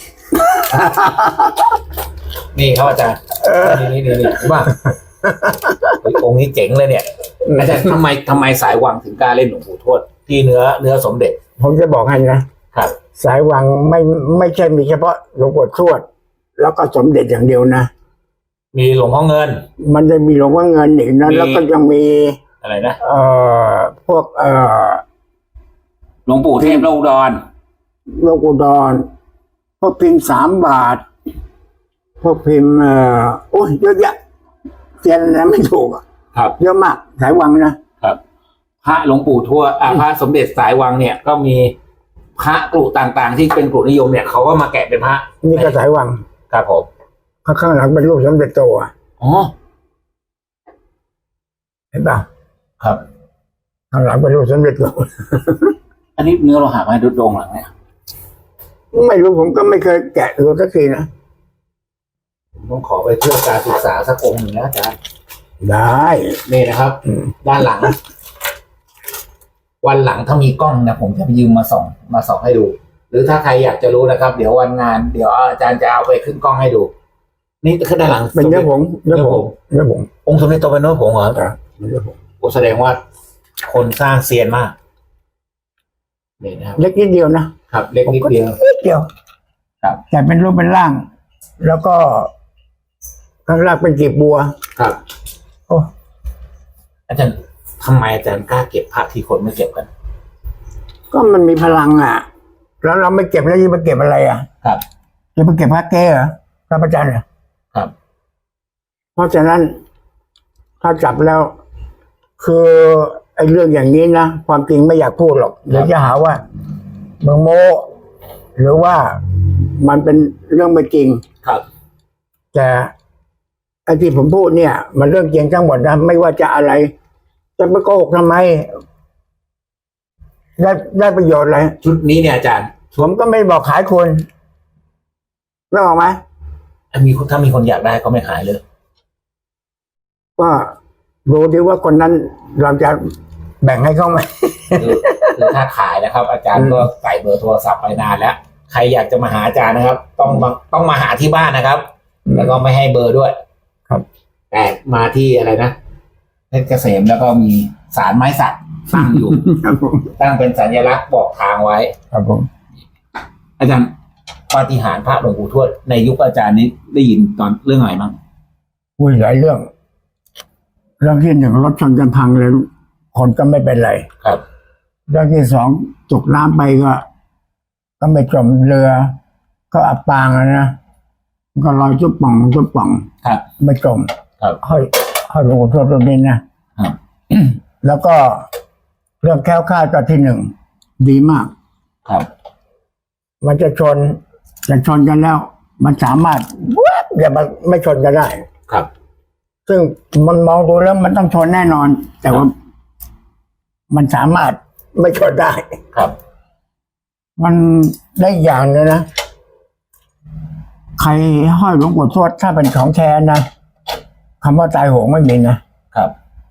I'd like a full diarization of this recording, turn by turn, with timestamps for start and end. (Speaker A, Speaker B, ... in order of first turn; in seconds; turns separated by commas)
Speaker A: 0.3-1.6, Speaker B: 2.5-4.8, Speaker A: 3.4-4.0, Speaker A: 5.2-6.0, Speaker B: 6.0-11.4, Speaker A: 7.5-7.8, Speaker A: 11.6-12.5, Speaker A: 13.1-16.1, Speaker A: 16.6-17.9, Speaker B: 18.7-19.6, Speaker A: 19.8-22.4, Speaker B: 21.2-21.6, Speaker B: 22.6-23.0, Speaker A: 23.0-25.0, Speaker B: 26.2-27.4, Speaker A: 28.1-29.1, Speaker A: 29.8-31.0, Speaker A: 32.2-34.1, Speaker A: 35.0-36.0, Speaker A: 36.6-37.8, Speaker B: 38.8-41.8, Speaker B: 42.4-45.8, Speaker A: 45.4-46.2, Speaker B: 46.5-46.9, Speaker A: 47.4-48.9, Speaker B: 49.2-49.5, Speaker A: 51.9-52.2, Speaker A: 53.9-55.8, Speaker B: 56.2-57.7, Speaker A: 58.9-61.1, Speaker B: 62.6-65.0, Speaker A: 65.6-66.4, Speaker B: 66.4-68.0, Speaker B: 69.8-76.9, Speaker B: 77.6-79.5, Speaker A: 78.3-80.1, Speaker B: 80.2-81.5, Speaker A: 81.5-82.1, Speaker B: 82.4-83.0, Speaker B: 83.6-84.8, Speaker B: 86.4-86.8, Speaker A: 86.8-87.5, Speaker B: 87.7-88.6, Speaker A: 88.1-89.1, Speaker A: 90.1-91.1, Speaker A: 91.6-92.3, Speaker A: 93.5-94.5, Speaker B: 97.1-99.9, Speaker A: 101.1-102.2, Speaker A: 102.8-104.5, Speaker A: 105.4-107.2, Speaker A: 109.2-109.8, Speaker A: 110.8-111.5, Speaker A: 112.4-116.4, Speaker A: 117.2-117.9, Speaker A: 118.5-121.2, Speaker A: 122.5-122.9, Speaker A: 123.9-126.9, Speaker A: 127.6-128.8, Speaker A: 130.6-131.8, Speaker B: 131.8-132.7, Speaker A: 132.9-134.3, Speaker A: 135.7-136.2, Speaker B: 136.9-138.6, Speaker A: 140.4-145.5, Speaker B: 144.8-153.4, Speaker A: 146.6-146.8, Speaker B: 154.5-155.8, Speaker B: 156.5-159.4, Speaker A: 158.9-160.1, Speaker B: 160.2-161.9, Speaker A: 162.1-162.5, Speaker B: 163.6-163.9, Speaker B: 164.5-168.2, Speaker A: 169.0-169.7, Speaker A: 171.0-174.1, Speaker A: 175.1-177.1, Speaker A: 178.0-179.2, Speaker A: 179.7-180.8, Speaker A: 181.5-183.1, Speaker A: 183.6-184.1, Speaker A: 184.6-186.4, Speaker A: 187.3-188.5, Speaker A: 189.2-191.5, Speaker A: 193.4-198.4, Speaker A: 199.7-202.5, Speaker A: 203.9-205.8, Speaker A: 207.4-209.1, Speaker A: 211.0-213.4, Speaker A: 214.4-215.6